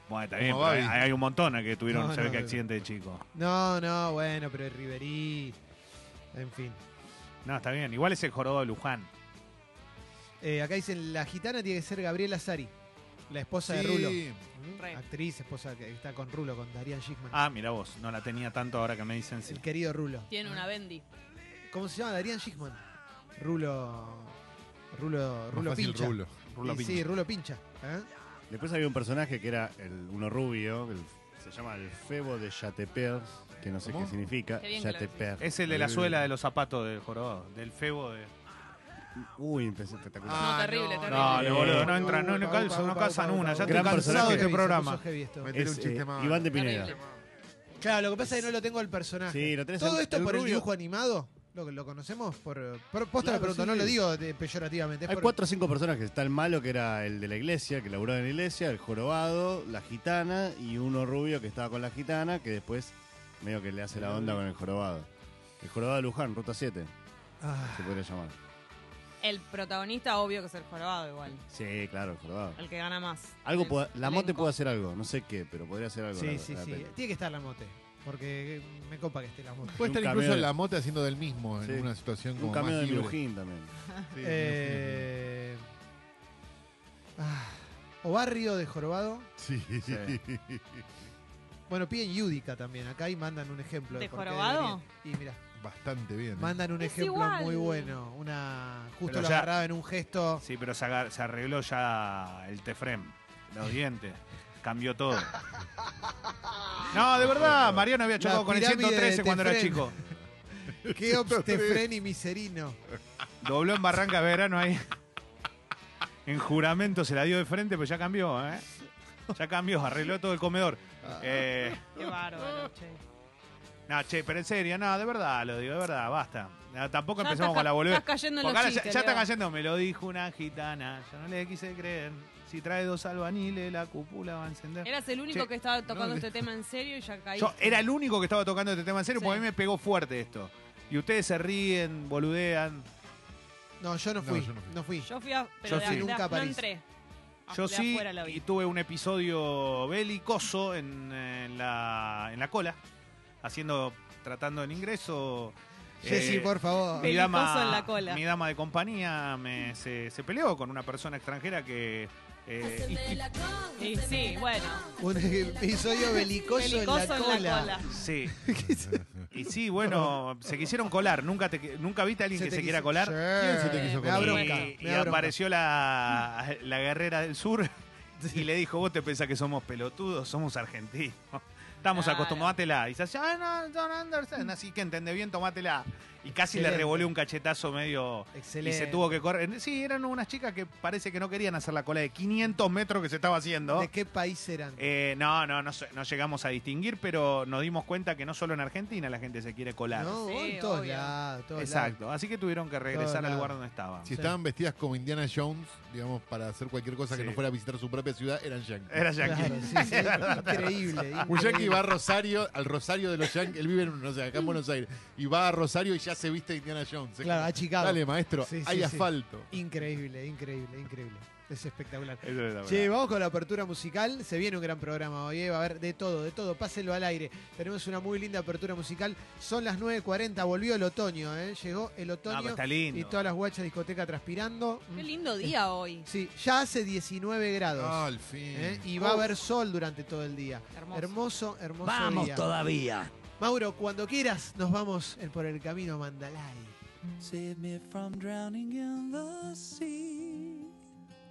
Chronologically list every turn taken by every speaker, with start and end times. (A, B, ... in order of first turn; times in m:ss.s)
0:00.1-0:03.2 A
0:00.4-0:01.0 B
0:01.9-0:02.6 C
0:03.3-0:05.6 C
0:06.3-0:06.8 C
0:07.4-0:09.1 A
0:10.4-0:12.7 C
0:13.3-0:17.4 C
0:13.6-0:14.4 B
0:17.3-0:19.6 A
0:19.4-0:20.6 C
0:20.3-0:21.0 D
0:21.7-0:22.8 C
0:23.4-0:24.4 C
0:24.9-0:28.1 C
0:25.5-0:26.3 B
0:26.5-0:27.1 A
0:28.5-0:36.1 E
0:33.8-0:34.1 B
0:34.6-0:35.4 D
0:35.4-0:38.3 A
0:35.7-0:36.1 B
0:39.2-0:42.1 E
0:40.3-0:41.4 B
0:40.3-0:41.6 D
0:41.1-0:45.0 A
0:41.3-0:45.5 C
0:43.6-0:44.6 E
0:45.4-0:47.1 B
0:45.5-0:47.0 E
0:46.5-0:47.0 D
0:47.8-0:55.4 C
0:49.2-0:50.7 E
0:53.2-0:54.0 E
0:55.0-1:05.1 E
1:04.1-1:04.4 B
1:05.6-1:06.9 E
1:07.4-1:08.0 C
1:07.7-1:08.4 E
1:09.2-1:11.4 D
1:11.5-1:12.6 E
1:12.6-1:14.5 D
1:13.4-1:16.9 E
1:16.2-1:19.8 C
1:19.8-1:23.2 B
1:19.8-1:20.5 E
1:21.6-1:23.7 E
1:24.1-1:25.1 B
1:24.2-1:25.6 C
1:27.2-1:29.3 C
1:29.4-1:30.8 B
1:29.8-1:30.2 A
1:31.7-1:35.4 C
1:33.9-1:34.8 D
1:35.6-1:36.6 B
1:36.4-1:40.4 C
1:36.8-1:38.0 D
1:39.1-1:39.5 A
1:40.4-1:45.4 A
1:46.9-1:49.9 A
1:46.9-1:47.9 B
1:48.2-1:49.9 C
1:50.8-1:52.8 C
1:50.9-1:51.8 B
1:53.4-1:54.8 A
1:56.2-1:58.7 A
1:59.3-2:01.9 A
2:01.0-2:01.4 C
2:01.9-2:03.0 D
2:03.9-2:15.5 A
2:07.2-2:09.2 D
2:14.8-2:17.8 D
2:15.9-2:16.4 B
2:17.4-2:22.9 A
2:19.1-2:19.4 D
2:23.8-2:25.1 C
2:24.2-2:24.8 B
2:25.0-2:26.8 D
2:25.6-2:26.6 C
2:25.6-2:26.1 A
2:27.5-2:28.4 D
2:27.5-2:32.8 A
2:33.4-2:43.3 A
2:36.0-2:37.1 C
2:36.9-2:38.2 D
2:43.7-2:44.9 D
2:45.0-2:49.1 C
2:46.5-2:47.9 D
2:47.9-2:48.4 A
2:48.8-2:49.2 B
2:49.3-2:53.2 A
2:49.8-2:50.2 C
2:52.3-2:55.4 C
2:53.3-2:54.5 B
2:53.6-2:54.7 D
2:54.2-2:57.7 A
2:58.2-2:58.4 C
2:58.3-3:13.9 A
3:01.9-3:02.6 D
3:06.4-3:07.1 C
3:08.3-3:09.2 C
3:13.7-3:14.9 C
3:14.8-3:20.2 A
3:19.9-3:22.0 C
3:20.2-3:21.2 D
3:21.6-3:24.1 A
3:22.9-3:23.6 C
3:24.0-3:29.6 B
3:24.1-3:24.4 C
3:27.1-3:27.4 A
3:28.9-3:31.2 A
3:29.2-3:31.9 C
3:31.2-3:39.5 B
3:37.2-4:02.5 C
3:42.2-3:42.9 A
3:52.3-3:53.2 A
3:54.9-3:56.1 D
3:57.7-3:59.0 B
4:00.7-4:01.2 D
4:01.8-4:03.1 F
4:03.4-4:06.8 C
4:07.2-4:10.7 F